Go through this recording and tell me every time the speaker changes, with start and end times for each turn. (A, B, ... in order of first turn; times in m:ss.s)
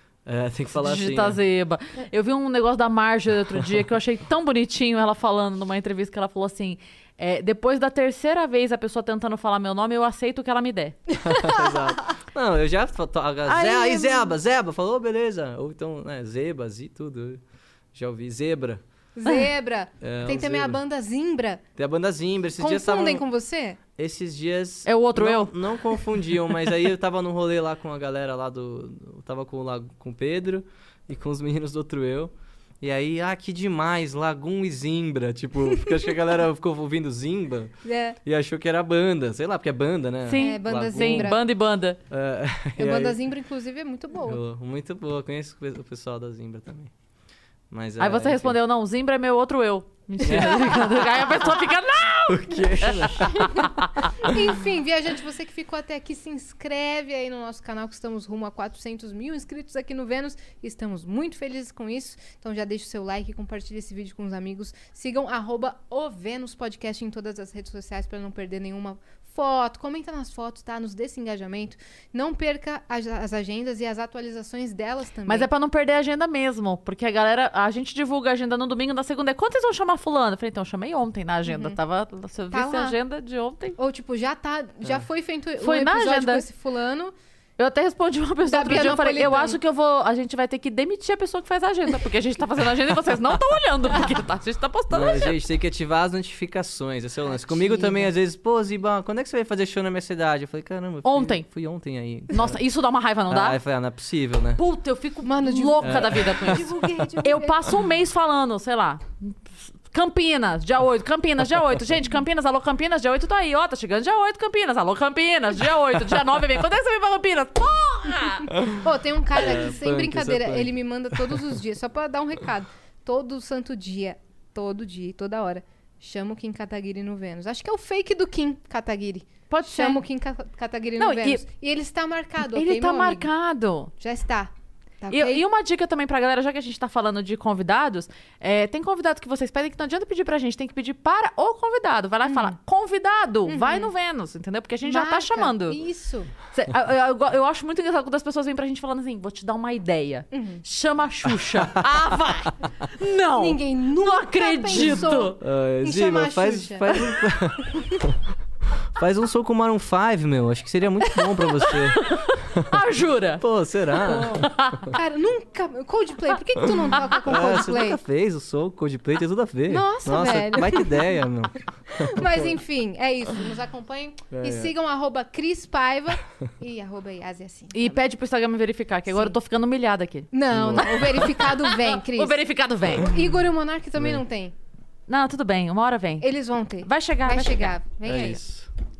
0:00.3-0:01.4 A
0:00.8-0:11.0 B
0:11.2-0:17.4 A
0:13.4-0:14.4 B
0:17.9-0:18.8 A
0:19.2-0:21.6 C
0:20.0-0:20.8 A
0:21.8-0:23.2 A
0:22.6-0:23.8 C
0:24.0-0:37.7 A
0:24.8-0:25.5 B
0:37.8-0:38.2 C
0:38.2-0:41.4 A
0:40.3-0:42.0 B
0:40.3-0:41.4 C
0:42.1-0:43.2 A
0:42.8-0:44.4 C
0:44.2-0:46.9 A
0:47.7-0:48.6 A
0:48.0-0:54.1 B
0:50.2-0:51.5 A
0:52.3-0:53.6 A
0:53.4-0:53.7 C
0:54.2-1:15.5 C
1:15.3-1:23.8 B
1:21.5-1:21.8 C
1:22.5-1:23.0 C
1:23.8-1:27.1 C
1:25.6-1:26.4 B
1:27.6-1:35.3 B
1:28.4-1:29.6 C
1:34.9-1:42.6 A
1:37.2-1:38.1 C
1:41.0-1:41.4 B
1:42.3-1:43.6 B
1:43.3-1:44.6 A
1:44.6-1:49.4 B
1:45.2-1:47.6 C
1:45.8-1:46.7 A
1:49.9-1:58.5 B
1:58.7-2:13.3 C
1:59.3-2:01.6 A
2:09.5-2:10.0 B
2:11.0-2:11.4 B
2:12.4-2:13.9 B
2:14.0-2:15.4 C
2:15.1-2:25.8 B
2:22.3-2:22.5 C
2:23.4-2:23.9 C
2:24.8-2:26.3 C
2:26.5-2:35.4 B
2:30.3-2:30.6 C
2:33.4-2:37.1 C
2:35.4-2:38.0 A
2:38.9-2:42.7 A
2:41.4-2:43.4 B
2:43.4-2:44.8 A
2:44.0-2:44.8 B
2:44.9-2:48.0 C
2:46.8-2:52.6 A
2:49.7-2:51.2 C
2:51.9-2:58.0 C
2:54.3-2:54.7 A
2:57.7-3:03.1 B
3:00.3-3:02.4 C
3:00.5-3:01.4 A
3:02.9-3:04.5 C
3:04.0-3:04.2 A
3:05.1-3:06.3 B
3:06.2-3:08.4 C
3:06.8-3:07.7 B
3:08.0-3:08.7 A